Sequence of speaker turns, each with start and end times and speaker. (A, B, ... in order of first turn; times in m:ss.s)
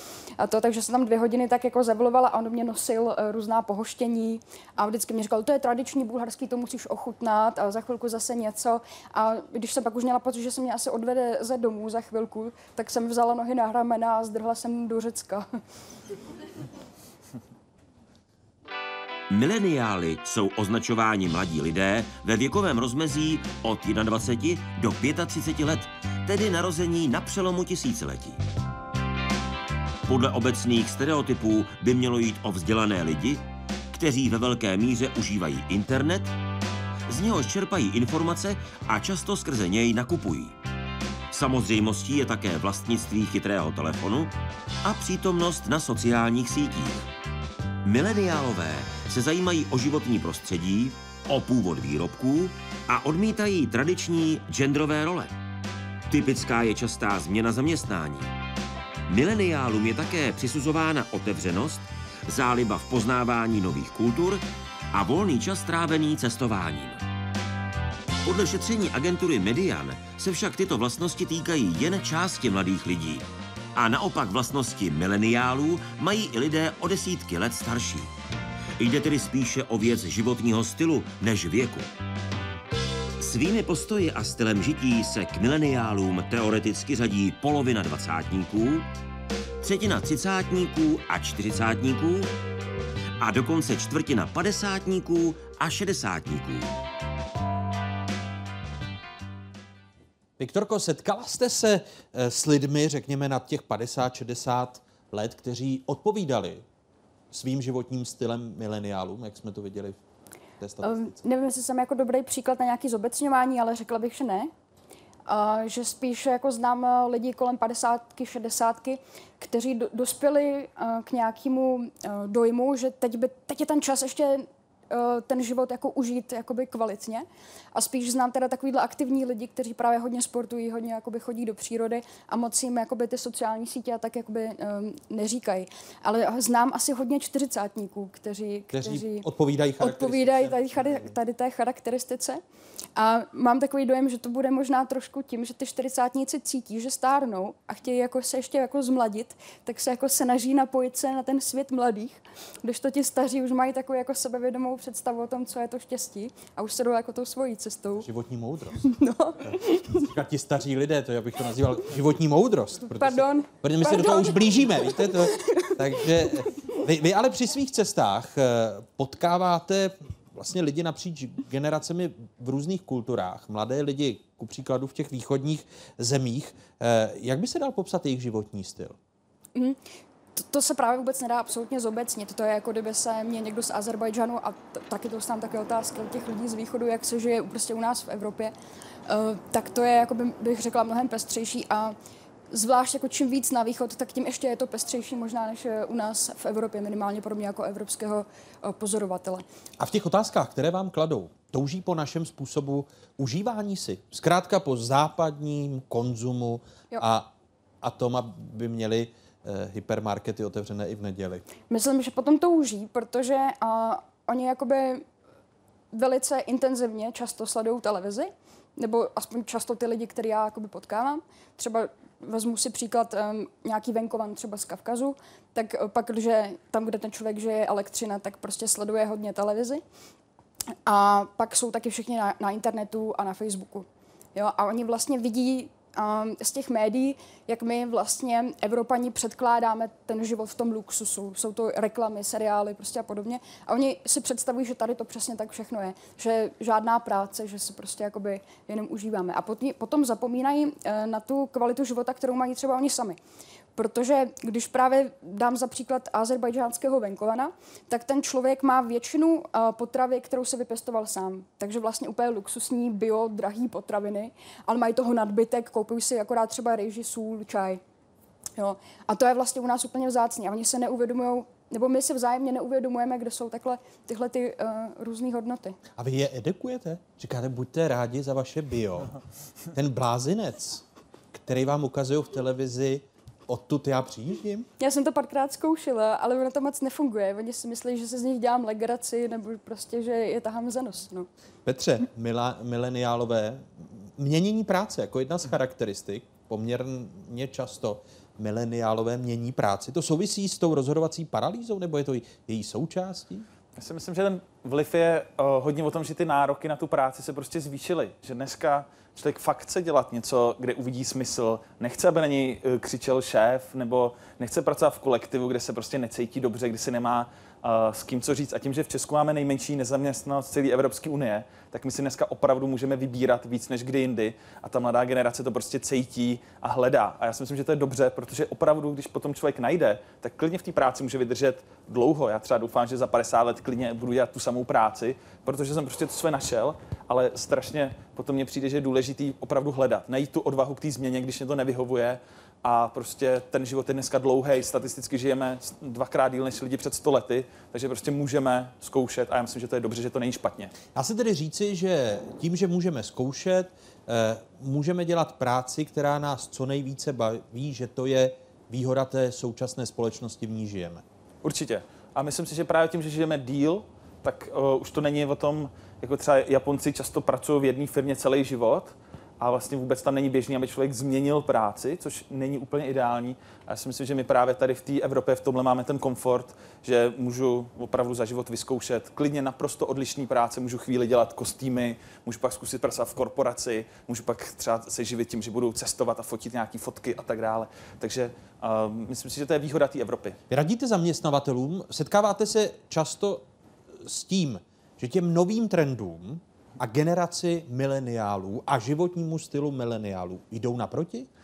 0:00.4-0:15.4 A
0:19.3-0:28.4 B
0:30.0-0:36.3 B
0:37.1-0:40.5 B
0:41.3-0:44.3 B
0:44.8-0:47.0 B
0:47.8-0:55.3 B
0:56.1-0:58.3 B
0:59.1-1:07.0 B
1:08.2-1:18.1 B
1:18.8-1:21.9 B
1:23.2-1:28.9 B
1:29.6-1:32.3 B
1:33.2-1:36.7 B
1:40.4-1:46.6 C
1:47.3-1:50.0 C
1:50.6-1:51.2 C
1:50.8-1:54.5 A
1:55.3-2:19.3 A
2:18.7-2:21.1 C
2:19.8-2:22.4 A
2:23.0-2:38.1 A
2:38.0-2:38.9 C
2:38.8-2:40.0 A
2:39.4-2:59.0 C
2:42.9-2:46.3 A
3:00.4-3:08.5 A
3:09.1-3:12.0 A
3:12.5-3:19.4 A
3:19.8-3:27.3 C
3:27.8-3:31.4 C
3:31.7-3:35.0 A
3:35.9-3:49.8 A
3:50.9-4:13.2 A
4:13.8-4:27.8 A
4:28.6-4:35.8 A
4:36.0-4:39.1 C
4:39.7-4:40.8 C
4:41.3-4:44.7 C
4:44.8-4:51.3 A
4:51.6-5:03.4 C
5:03.8-5:50.7 D
5:50.9-6:01.0 C
6:01.4-6:30.4 D
6:30.5-6:33.4 C
6:34.0-6:41.3 C